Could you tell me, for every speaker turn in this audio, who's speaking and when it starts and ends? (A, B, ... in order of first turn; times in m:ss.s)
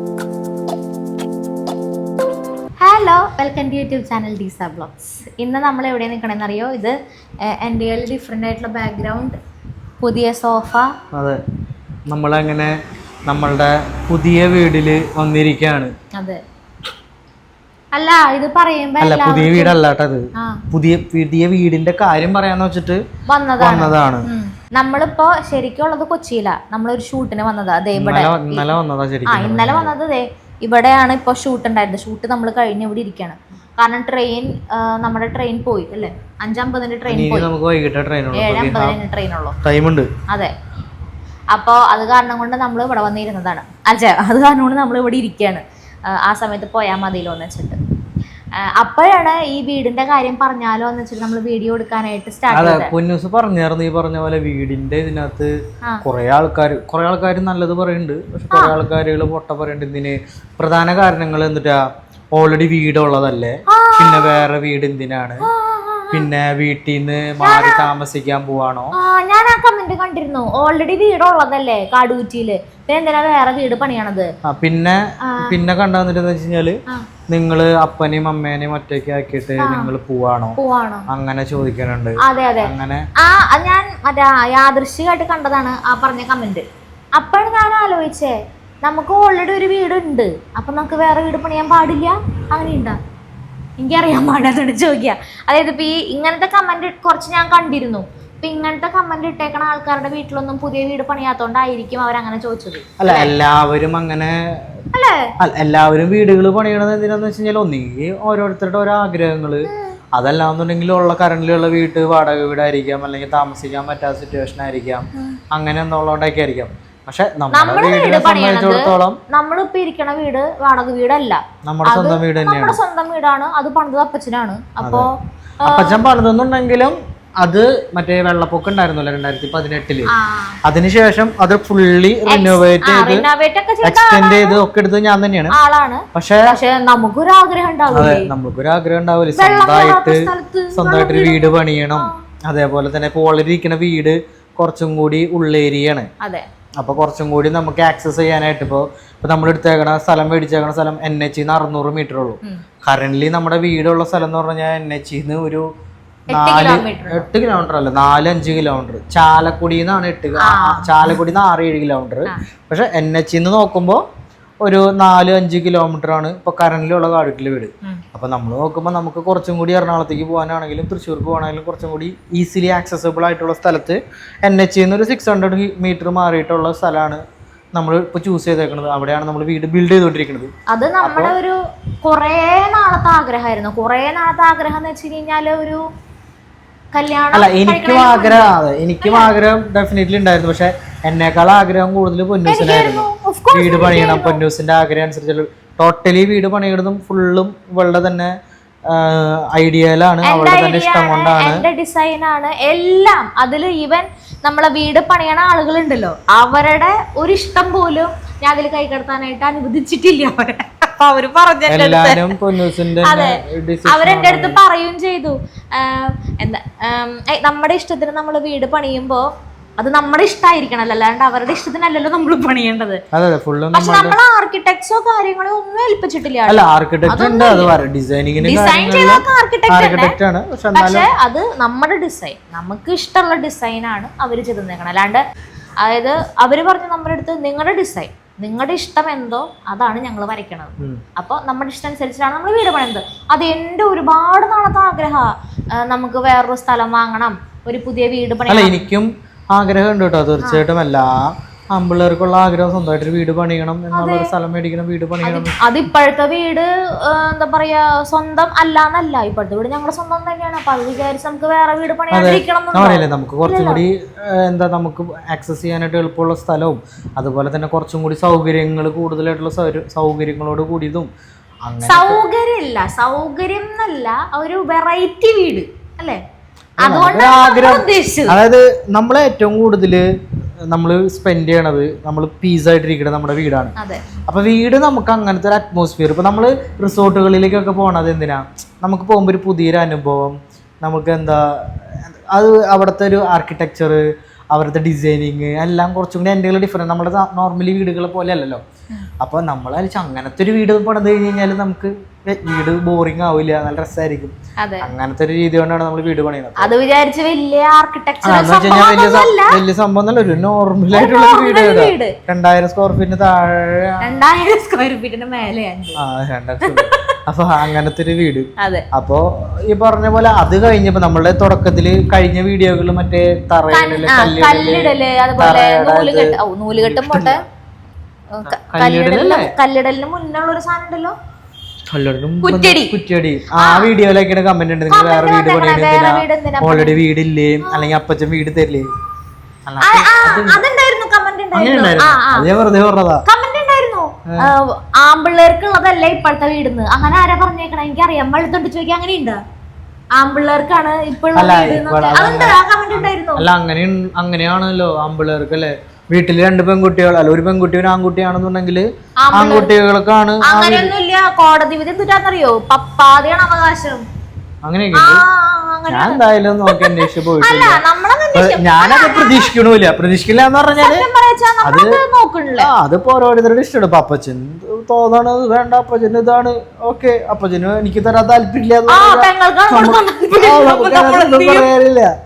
0:02.8-0:09.4 A
0:10.0-0:10.9 A
0:11.1-0:11.4 B
0:12.1-0:12.7 B
0:13.3-0:15.9 B
0:16.1-0:16.4 A
0:17.9-0:19.8 A
0:19.0-0:23.0 B
0:23.3-0:28.7 A
0:23.6-0:24.3 B
0:28.0-0:29.9 B
0:29.3-0:37.5 A
0:37.1-0:39.0 B
0:38.3-0:39.6 A
0:39.6-0:40.1 B
0:41.5-0:47.8 A
0:48.6-0:52.9 A
0:52.5-1:01.8 B
0:58.5-0:58.8 A
1:02.3-1:05.5 B
1:03.7-1:04.4 A
1:05.4-1:06.3 A
1:06.1-1:08.9 B
1:07.4-1:07.9 A
1:08.9-1:14.3 A
1:14.4-1:16.8 B
1:15.2-1:15.5 A
1:17.3-1:20.6 B
1:19.6-1:19.9 A
1:20.6-1:21.1 A
1:21.1-1:23.0 B
1:22.2-1:26.6 A
1:27.2-1:33.0 A
1:33.8-1:43.3 A
1:43.0-1:44.8 B
1:44.9-1:45.3 A
1:45.4-1:59.2 B
1:49.7-1:49.9 A
1:57.5-2:05.1 A
2:01.6-2:02.8 B
2:04.8-2:05.1 B
2:05.6-2:06.0 A
2:05.6-2:10.1 B
2:10.1-2:10.6 A
2:10.6-2:13.3 B
2:12.3-2:14.6 A
2:13.8-2:15.5 B
2:15.5-2:18.3 A
2:16.1-2:16.6 B
2:17.9-2:26.1 B
2:19.4-2:22.1 A
2:26.8-2:35.6 B
2:36.3-2:37.3 A
2:36.3-2:44.0 B
2:40.4-2:41.1 A
2:44.6-2:57.2 B
2:57.7-3:01.4 B
3:00.7-3:05.8 A
3:06.9-3:09.3 A
3:07.3-3:18.3 B
3:12.4-3:14.4 A
3:18.9-3:21.7 B
3:20.2-3:32.4 A
3:31.7-3:34.6 B
3:33.0-3:39.2 A
3:39.8-3:43.0 A
3:43.1-3:44.2 B
3:43.7-3:47.7 A
3:46.5-3:51.1 B
3:48.4-3:50.2 A
3:50.7-3:55.2 A
3:55.8-4:08.8 A
4:08.5-4:15.6 B
4:13.9-4:14.3 A
4:15.2-4:23.8 A
4:22.1-4:31.1 B
4:31.6-4:32.2 B
4:31.8-4:36.2 A
4:36.8-4:38.4 A
4:36.8-4:40.0 B
4:40.7-4:43.7 B
4:43.8-4:44.0 A
4:44.3-4:58.6 B
4:59.2-5:06.7 B
5:04.6-5:04.9 A
5:06.6-5:09.6 A
5:08.2-5:14.2 B
5:10.9-5:12.1 A
5:14.0-5:16.0 A
5:16.0-5:27.4 B
5:16.6-5:17.1 A
5:18.6-5:18.8 A
5:23.7-5:27.4 A
5:28.3-5:31.1 A
5:28.4-5:29.5 B
5:31.9-5:38.9 B
5:32.4-5:32.9 A
5:33.6-5:33.9 A
5:34.9-5:37.0 A
5:37.6-5:37.9 A
5:39.7-5:40.6 B
5:39.8-5:42.5 A
5:41.5-5:43.2 B
5:43.2-5:49.4 A
5:50.2-5:53.4 A
5:51.3-6:00.9 B
5:59.2-5:59.7 A
6:00.4-6:04.0 A
6:04.6-6:05.2 B
6:04.9-6:09.5 A
6:05.9-6:07.8 B
6:08.3-6:11.1 B
6:10.8-6:12.7 A
6:11.6-6:12.0 B
6:12.6-6:22.1 B
6:18.9-6:21.7 A